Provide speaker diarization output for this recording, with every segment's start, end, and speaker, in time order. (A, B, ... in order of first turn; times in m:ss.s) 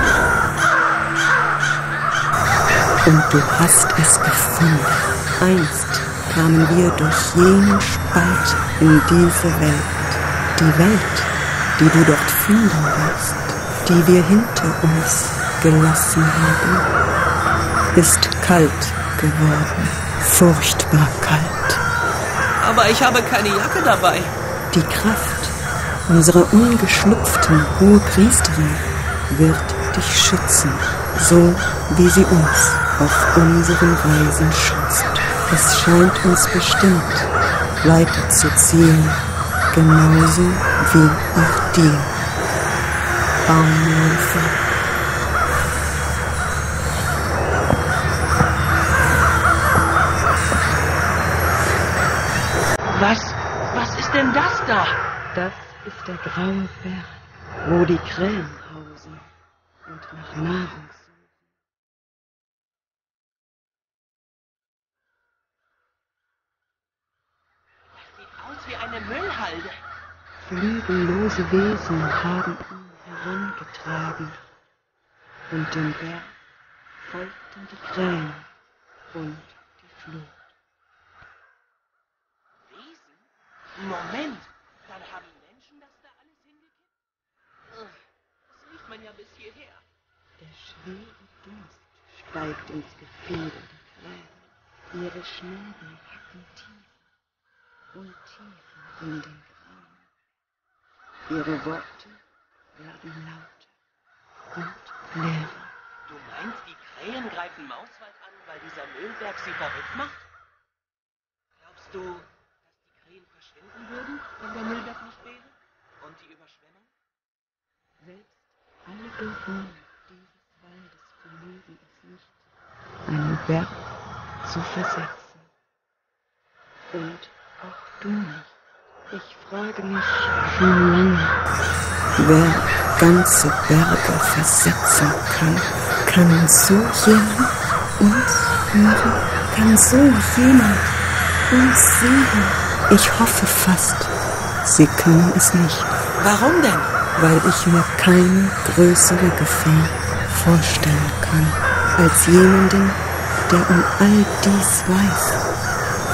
0:03.1-0:16.9 A
0:18.0-0:21.8 A
0:22.6-0:24.3 B
0:24.7-0:37.3 A
0:37.8-0:42.1 A
0:43.5-0:44.6 A
0:52.9-0:55.0 B
0:55.3-0:59.3 A
0:59.9-1:01.4 A
1:08.0-1:09.7 B
1:10.4-1:14.4 A
1:15.5-1:16.4 A
1:17.0-1:18.5 A
1:19.1-1:20.5 A
1:22.7-1:23.3 B
1:23.8-1:26.9 B
1:27.7-1:28.0 B
1:28.5-1:29.8 B
1:30.4-1:37.0 A
1:37.9-1:40.1 A
1:41.3-1:42.2 A
1:42.8-1:43.7 A
1:44.5-1:45.7 A
1:46.1-1:50.3 B
1:51.6-1:56.9 B
1:58.0-2:02.4 A
2:03.1-2:03.9 A
2:04.4-2:05.5 A
2:06.9-2:08.5 A
2:09.1-2:11.4 A
2:12.2-2:20.9 A
2:21.5-2:24.1 A
2:24.6-2:25.9 A
2:26.2-2:26.9 B
2:27.2-2:35.4 A